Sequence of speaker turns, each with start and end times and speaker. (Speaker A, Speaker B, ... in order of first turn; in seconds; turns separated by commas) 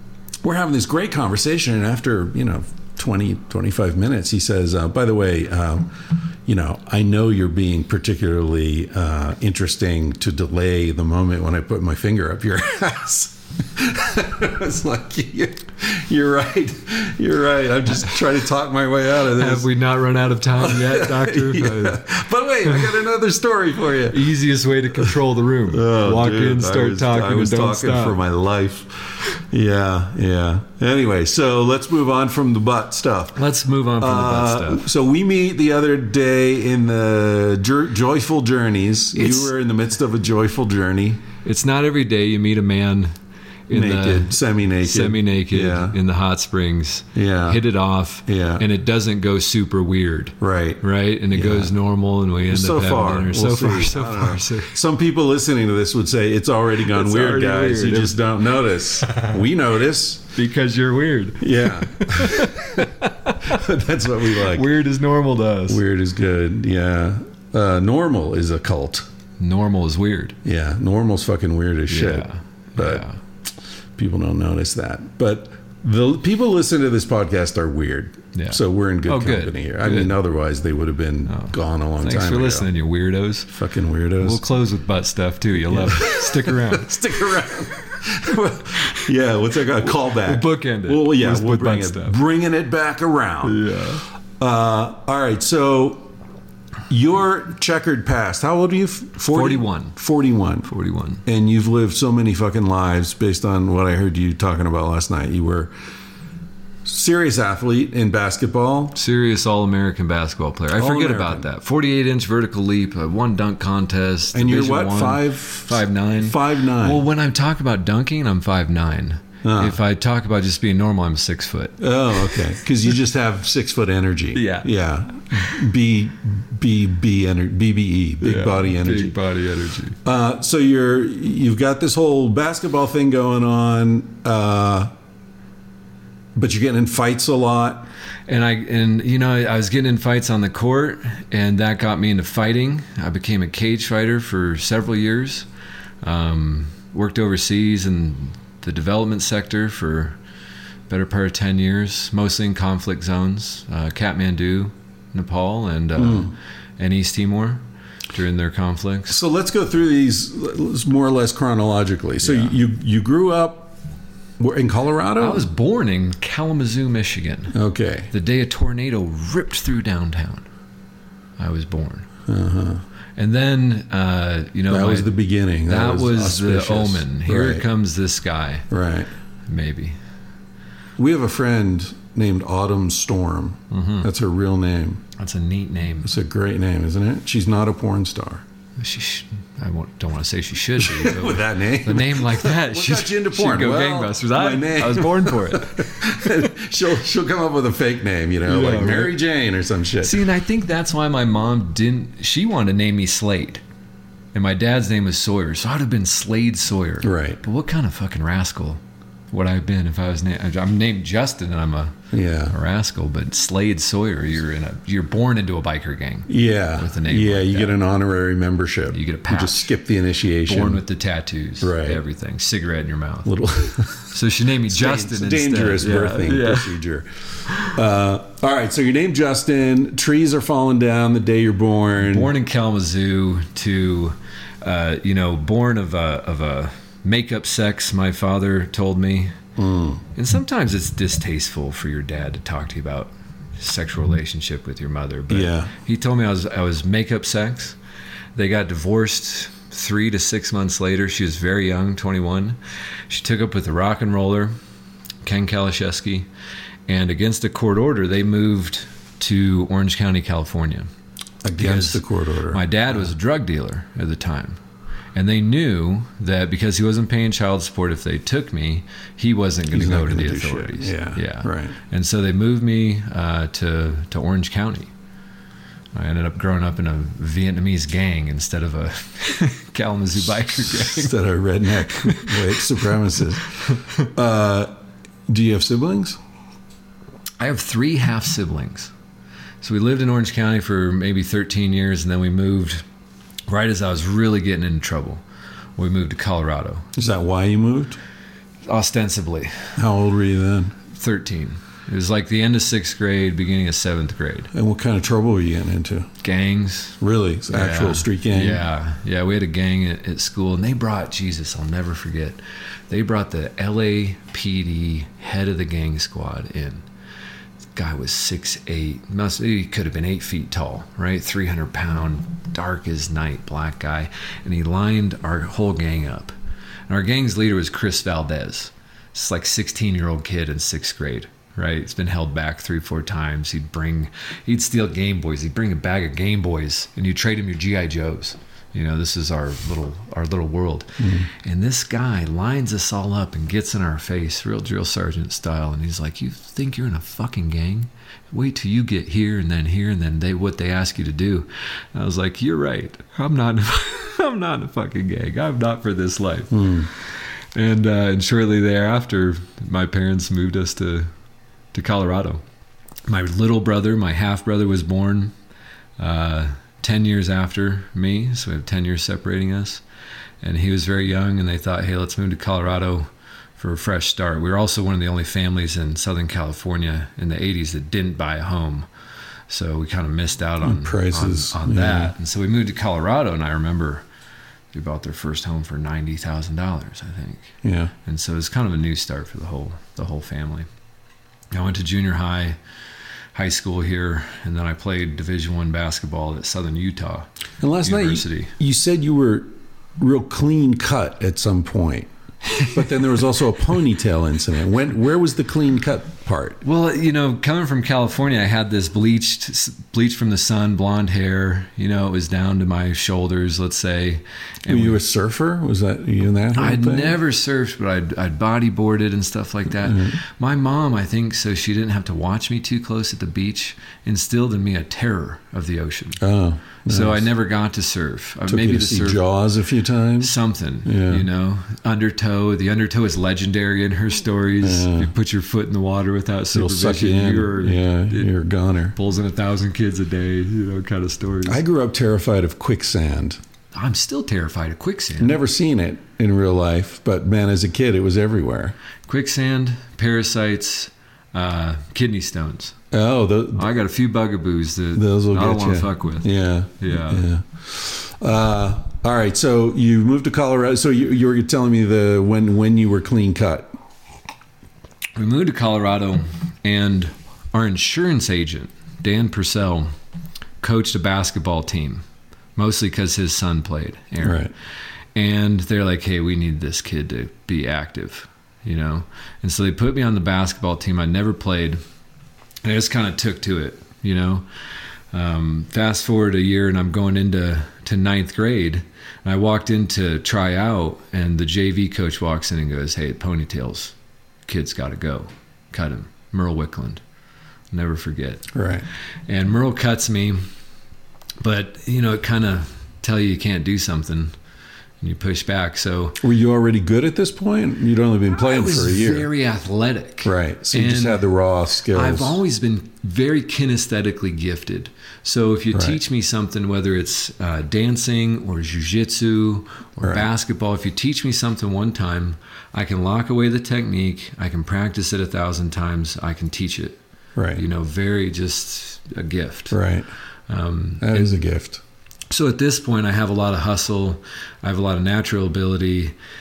Speaker A: 0.4-19.7, Speaker B: 19.2-22.1, Speaker A: 20.6-24.3, Speaker B: 24.1-28.2, Speaker A: 24.9-33.4, Speaker B: 33.3-34.9, Speaker A: 34.0-41.2, Speaker B: 39.1-39.5, Speaker B: 41.4-43.1, Speaker B: 43.7-54.8, Speaker A: 43.7-46.0, Speaker A: 47.1-47.6, Speaker A: 48.2-48.6, Speaker A: 50.4-51.7, Speaker A: 52.5-60.3, Speaker B: 56.9-58.2, Speaker B: 59.0-59.3, Speaker B: 60.3-63.5, Speaker A: 61.4-62.9, Speaker A: 63.4-64.7, Speaker B: 64.3-65.8, Speaker A: 65.7-69.1, Speaker B: 69.4-70.3, Speaker A: 70.4-73.1, Speaker B: 71.9-73.2, Speaker A: 74.0-82.7, Speaker B: 78.3-80.1, Speaker B: 81.3-83.5, Speaker A: 83.5-84.4, Speaker B: 84.2-87.2, Speaker A: 85.7-93.8, Speaker B: 89.8-92.2, Speaker B: 93.4-94.0, Speaker A: 94.4-96.1, Speaker A: 96.9-100.7, Speaker B: 99.3-100.0, Speaker B: 100.7-101.2, Speaker A: 101.2-105.7, Speaker A: 106.8-108.9, Speaker B: 108.9-122.4, Speaker A: 110.7-111.5, Speaker A: 114.3-117.0, Speaker A: 119.4-119.8, Speaker A: 121.8-129.2, Speaker B: 124.3-124.7, Speaker B: 128.2-130.0, Speaker A: 130.0-134.9, Speaker A: 136.3-137.9, Speaker B: 138.3-145.5, Speaker B: 146.0-150.2, Speaker B: 150.9-159.2, Speaker A: 156.0-156.3, Speaker A: 159.1-163.8, Speaker B: 162.2-162.5, Speaker A: 164.4-165.4, Speaker B: 165.2-167.5, Speaker A: 167.5-168.1, Speaker B: 168.1-170.5, Speaker B: 171.4-172.1, Speaker A: 172.3-172.8, Speaker B: 173.2-175.1, Speaker A: 174.7-177.6, Speaker B: 175.7-178.7, Speaker A: 178.7-179.1, Speaker B: 179.5-180.0, Speaker A: 181.0-185.0, Speaker B: 183.7-184.1, Speaker B: 185.2-186.1, Speaker A: 186.0-188.4, Speaker B: 188.8-196.3, Speaker A: 190.8-200.2, Speaker B: 198.4-199.2, Speaker B: 200.0-203.6, Speaker B: 204.3-211.9, Speaker A: 207.0-207.4, Speaker A: 212.1-212.5, Speaker B: 212.5-217.8, Speaker A: 216.3-220.8, Speaker B: 218.9-219.7, Speaker B: 220.4-223.3, Speaker A: 221.6-222.0, Speaker A: 223.2-224.2, Speaker B: 223.9-226.7, Speaker A: 224.7-232.3, Speaker B: 231.9-239.4, Speaker A: 239.6-240.0, Speaker B: 240.1-247.8, Speaker A: 245.3-245.7, Speaker B: 248.3-252.6, Speaker B: 253.1-254.5, Speaker B: 255.2-256.3, Speaker B: 256.9-260.9, Speaker A: 261.4-263.1, Speaker B: 261.5-264.6, Speaker B: 265.1-274.9, Speaker A: 269.7-271.8, Speaker B: 275.9-281.1, Speaker A: 280.8-284.7, Speaker B: 281.8-282.6, Speaker A: 285.3-286.2, Speaker B: 287.4-288.9, Speaker B: 289.6-292.8, Speaker B: 293.5-295.2, Speaker B: 295.8-296.9, Speaker A: 296.9-298.0, Speaker B: 298.6-299.8, Speaker A: 299.8-300.7, Speaker B: 300.9-304.5, Speaker A: 304.5-306.1, Speaker B: 306.2-316.8, Speaker A: 307.0-308.6, Speaker B: 317.7-326.3, Speaker B: 326.9-361.1, Speaker A: 341.0-341.3, Speaker A: 356.5-356.9, Speaker B: 361.7-362.4, Speaker B: 363.1-365.3, Speaker B: 366.0-369.8, Speaker B: 370.4-378.9, Speaker B: 379.5-384.0, Speaker A: 380.6-382.1, Speaker B: 384.7-390.7, Speaker A: 387.6-387.9, Speaker B: 391.5-392.6, Speaker B: 393.3-397.3, Speaker A: 397.6-402.1, Speaker B: 397.8-398.5, Speaker A: 402.6-406.6, Speaker B: 406.6-415.0, Speaker A: 414.6-417.2, Speaker B: 416.5-426.2, Speaker A: 419.8-420.1, Speaker A: 426.2-427.3, Speaker B: 426.8-429.2, Speaker A: 428.4-430.3, Speaker B: 430.2-438.3, Speaker A: 430.8-431.2, Speaker A: 434.6-435.1, Speaker A: 436.5-438.9, Speaker B: 438.9-441.6, Speaker A: 441.4-443.4, Speaker B: 443.7-445.4, Speaker A: 445.2-448.8, Speaker B: 449.1-452.8, Speaker A: 452.9-453.7, Speaker B: 453.5-456.3, Speaker A: 454.9-463.8, Speaker B: 456.8-457.2, Speaker B: 465.1-469.9, Speaker B: 470.6-472.0, Speaker B: 472.6-474.5, Speaker A: 474.2-474.5, Speaker B: 475.1-481.8, Speaker B: 482.6-493.9, Speaker B: 494.4-497.0, Speaker B: 497.7-498.5, Speaker A: 498.5-498.9, Speaker B: 499.3-500.5, Speaker B: 501.4-504.3, Speaker B: 505.0-506.2, Speaker A: 506.2-509.3, Speaker B: 508.3-511.3, Speaker A: 510.2-512.4, Speaker B: 511.9-527.0, Speaker A: 515.7-516.0, Speaker A: 520.0-520.2, Speaker A: 527.3-527.6, Speaker B: 527.5-529.8, Speaker A: 529.7-530.1, Speaker B: 530.5-531.4, Speaker A: 531.0-531.8, Speaker B: 532.3-536.1